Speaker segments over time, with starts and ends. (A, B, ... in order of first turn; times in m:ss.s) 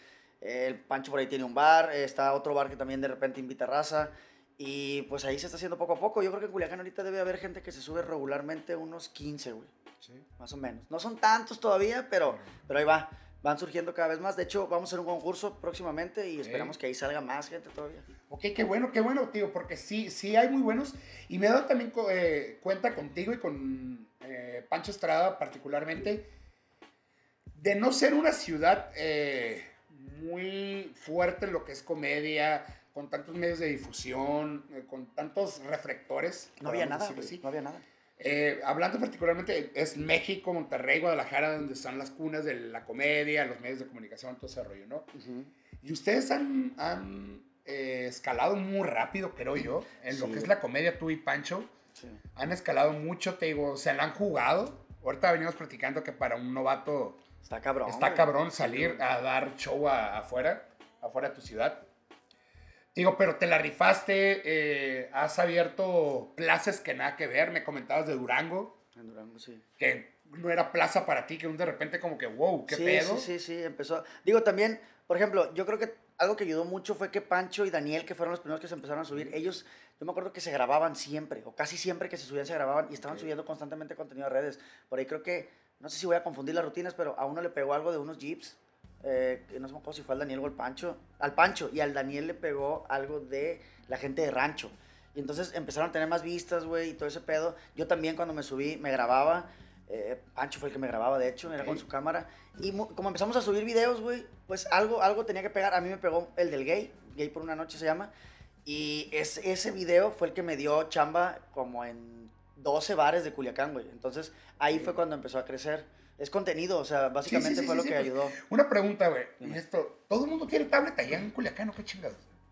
0:00.4-0:09.7 A
0:10.4-0:18.0 A
0:16.4-0:16.8 B
0:18.3-0:26.3 B
0:27.5-0:37.4 B
0:36.6-0:37.8 A
0:38.2-0:45.1 B
0:45.1-0:45.5 A
0:45.8-0:51.7 B
0:50.1-0:50.5 A
0:51.9-0:52.2 A
0:52.4-0:57.2 B
0:57.4-0:59.0 A
0:57.9-1:01.9 B
1:02.9-1:08.8 B
1:08.9-1:09.6 A
1:09.8-1:13.3 B
1:12.7-1:48.1 A
1:23.0-1:23.3 B
1:41.5-1:41.8 B
1:48.6-1:58.4 A
1:57.2-2:02.2 B